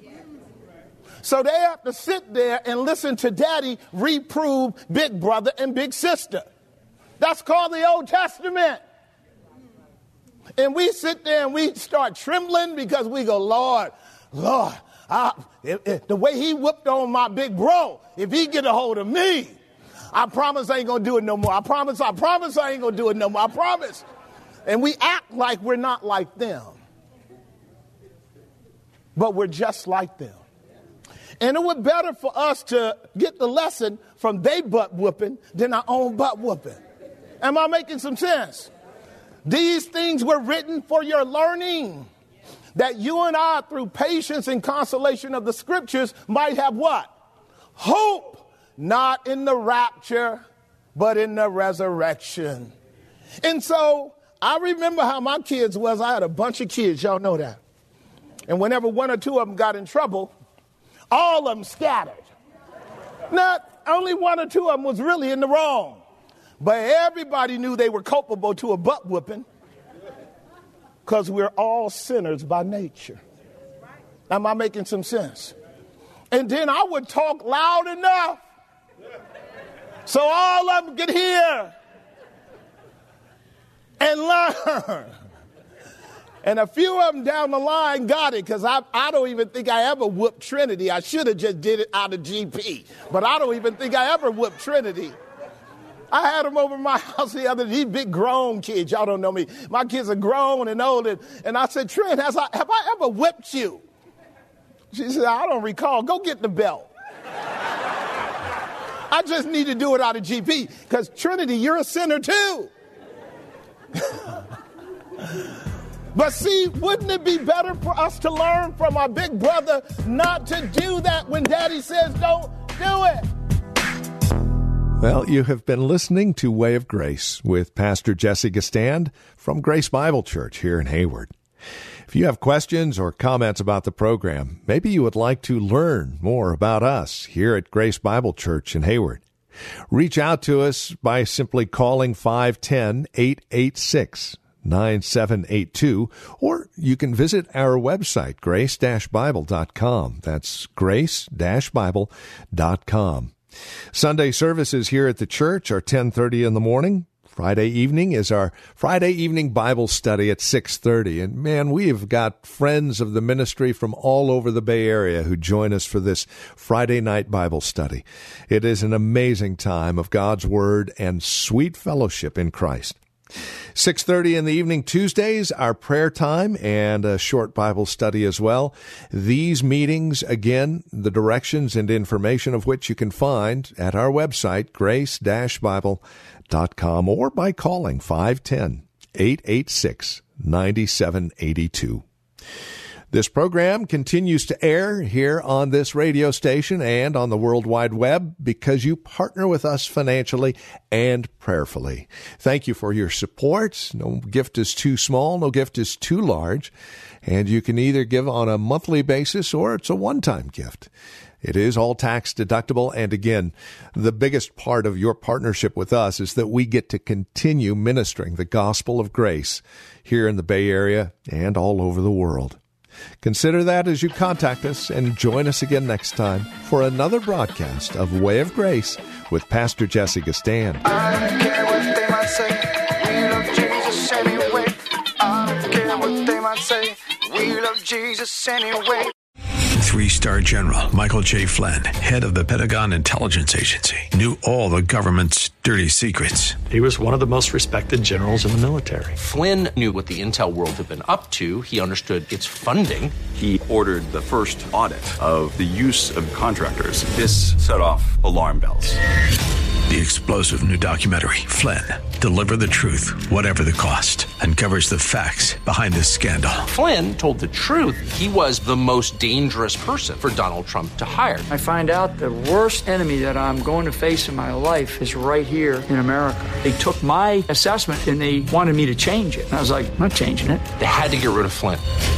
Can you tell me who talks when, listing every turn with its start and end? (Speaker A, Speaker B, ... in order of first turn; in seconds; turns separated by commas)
Speaker A: 1.2-6.4, Speaker A: 7.2-8.8, Speaker A: 10.6-19.6, Speaker A: 20.1-24.0, Speaker A: 24.7-26.8, Speaker A: 29.2-30.4, Speaker A: 31.4-36.8, Speaker A: 37.4-38.7, Speaker A: 39.5-42.1, Speaker A: 42.8-47.1, Speaker A: 47.8-50.4, Speaker A: 51.0-52.7, Speaker A: 53.4-57.6, Speaker A: 58.5-60.3, Speaker A: 61.1-62.3, Speaker A: 63.3-66.0, Speaker A: 66.6-69.5, Speaker A: 71.0-73.2, Speaker A: 74.3-75.5, Speaker A: 76.3-78.4, Speaker A: 80.1-81.7, Speaker A: 84.0-85.1, Speaker A: 86.4-95.2, Speaker A: 96.1-103.8, Speaker A: 104.9-106.9, Speaker A: 109.1-112.7, Speaker A: 116.1-123.3, Speaker B: 125.0-131.3, Speaker B: 132.1-139.2, Speaker B: 139.9-153.3, Speaker B: 153.9-173.0, Speaker B: 173.8-192.0, Speaker B: 193.1-206.7, Speaker B: 207.2-210.9, Speaker B: 211.4-222.6, Speaker B: 223.2-230.8, Speaker C: 230.8-239.1, Speaker D: 239.7-246.6, Speaker E: 246.7-249.2, Speaker F: 249.2-253.2, Speaker G: 253.3-259.0, Speaker D: 259.9-266.7, Speaker F: 266.7-271.5, Speaker H: 271.5-280.6, Speaker F: 280.8-281.8